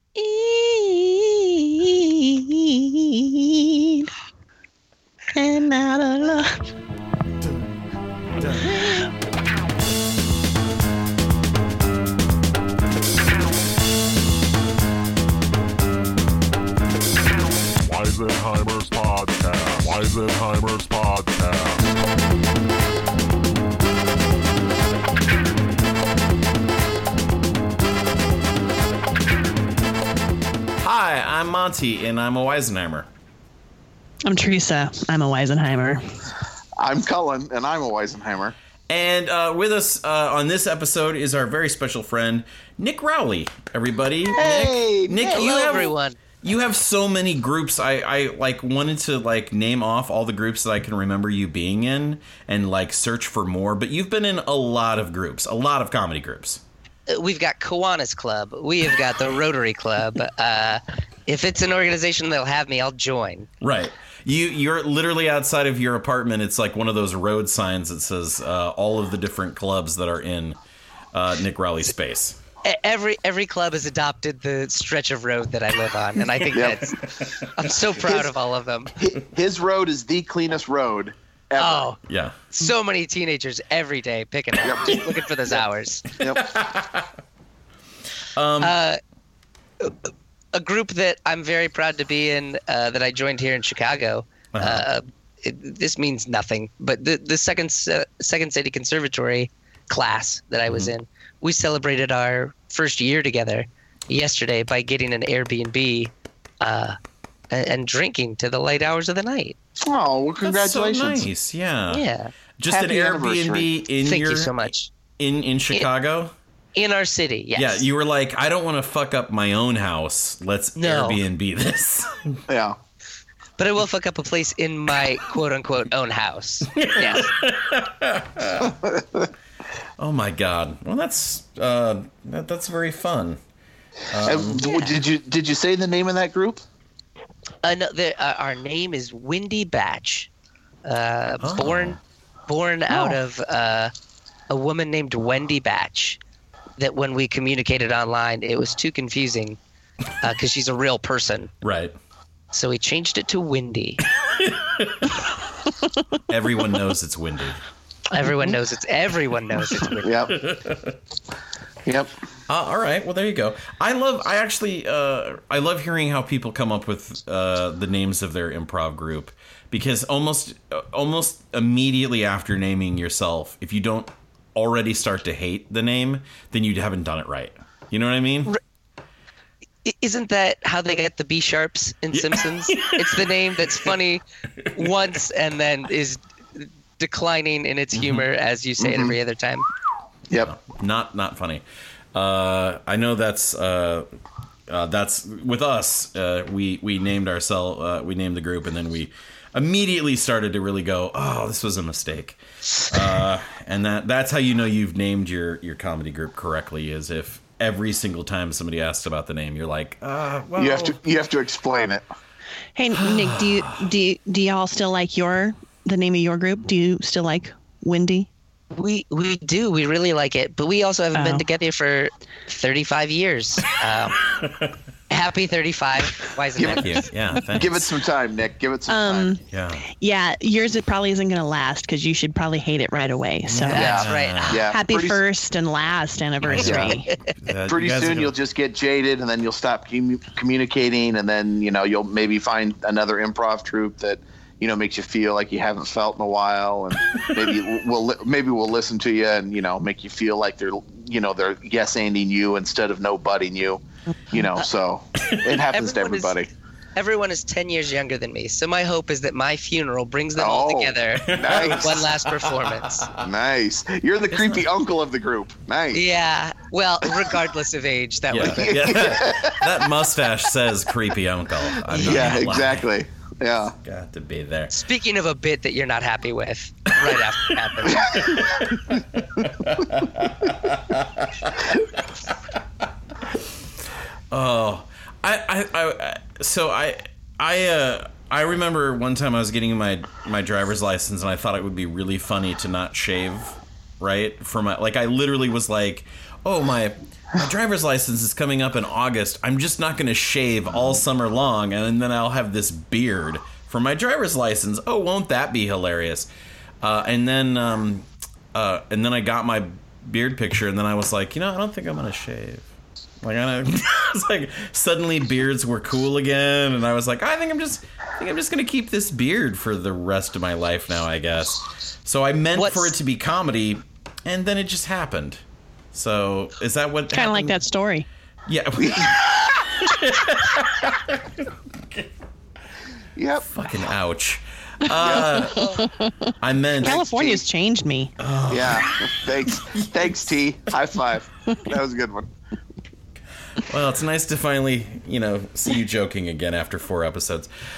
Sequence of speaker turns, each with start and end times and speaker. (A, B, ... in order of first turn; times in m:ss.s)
0:00.2-0:04.1 A
0:05.3-0:06.7 A
0:08.5-0:09.1 A
0:17.8-0:21.9 B
0:30.8-0:33.1 C
0:34.2-0:36.2 A
0:36.8-0:38.6 D
0:38.9-0:56.6 C
0:44.3-0:45.7 D
0:45.2-0:46.2 E
0:57.1-1:03.5 E
1:03.6-1:10.6 C
1:11.1-1:12.4 C
1:12.6-1:19.0 E
1:16.5-1:16.9 D
1:18.0-1:18.3 D
1:19.0-1:21.9 D
1:21.6-1:22.0 E
1:22.1-1:22.4 C
1:22.5-1:26.2 E
1:24.6-1:25.6 D
1:26.2-1:26.5 D
1:26.2-1:27.1 C
1:28.4-1:28.8 C
1:28.6-1:29.0 E
1:29.8-1:47.0 E
1:34.5-1:34.8 C
1:40.7-1:40.9 C
1:47.5-1:49.6 E
1:49.8-1:51.3 D
1:50.4-1:52.0 C
1:51.9-1:52.3 E
1:52.6-1:54.5 C
1:52.7-1:53.7 D
1:54.0-1:54.9 E
1:55.2-1:56.3 C
1:56.8-1:57.9 E
1:57.6-2:02.4 C
2:00.8-2:01.2 E
2:02.5-2:02.8 D
2:03.6-2:07.3 E
2:06.7-2:08.8 C
2:08.8-2:09.2 D
2:10.0-2:13.4 C
2:14.1-2:14.6 C
2:14.2-2:16.6 D
2:17.6-2:20.3 E
2:20.8-2:22.0 E
2:21.4-2:22.0 C
2:22.5-2:23.9 E
2:22.9-2:23.2 A
2:24.5-2:26.2 E
2:26.8-2:29.6 E
2:30.2-2:31.5 E
2:31.6-2:32.0 C
2:32.5-2:34.0 E
2:34.4-2:35.2 C
2:36.3-2:37.6 C
2:38.1-2:40.2 E
2:40.0-2:40.4 D
2:40.3-2:41.0 C
2:41.9-2:42.2 D
2:42.5-2:58.6 C
2:59.8-3:09.7 E
3:02.7-3:03.8 C
3:07.9-3:08.2 C
3:08.8-3:09.2 D
3:10.4-3:11.6 C
3:12.1-3:14.1 C
3:14.7-3:31.0 C
3:30.6-3:32.0 D
3:32.8-3:38.3 A
3:32.9-3:33.8 C
3:38.7-3:44.3 E
3:41.1-3:41.5 A
3:45.1-3:47.1 E
3:46.6-3:46.9 D
3:46.8-3:47.9 C
3:47.5-3:49.4 D
3:48.9-3:53.8 A
3:49.5-3:49.9 C
3:53.5-3:54.6 C
3:53.7-3:54.7 E
3:53.7-3:55.2 D
3:54.6-3:57.1 A
3:56.4-3:58.3 C
3:56.6-3:57.0 D
3:57.7-4:16.5 D
4:15.6-4:16.4 E
4:17.0-4:23.1 E
4:20.4-4:22.0 D
4:21.2-4:23.2 C
4:23.2-4:26.0 D
4:24.3-4:24.6 C
4:25.9-4:29.2 E
4:28.3-4:32.9 C
4:28.5-4:29.6 D
4:31.9-4:32.5 E
4:31.9-4:33.7 D
4:33.8-4:34.7 C
4:34.7-4:38.5 E
4:38.0-4:42.3 C
4:44.3-5:06.3 C
5:06.8-5:12.7 C
5:13.2-5:25.4 C
5:22.5-5:23.0 E
5:25.9-5:27.6 C
5:27.1-5:28.1 A
5:28.4-5:32.1 C
5:28.8-5:29.6 D
5:33.2-5:33.5 D
5:33.4-5:35.8 C
5:35.0-5:35.6 D
5:35.7-5:38.1 A
5:36.4-5:37.1 C
5:37.0-5:37.4 D
5:38.2-5:40.2 C
5:38.5-5:42.3 D
5:43.6-5:47.5 C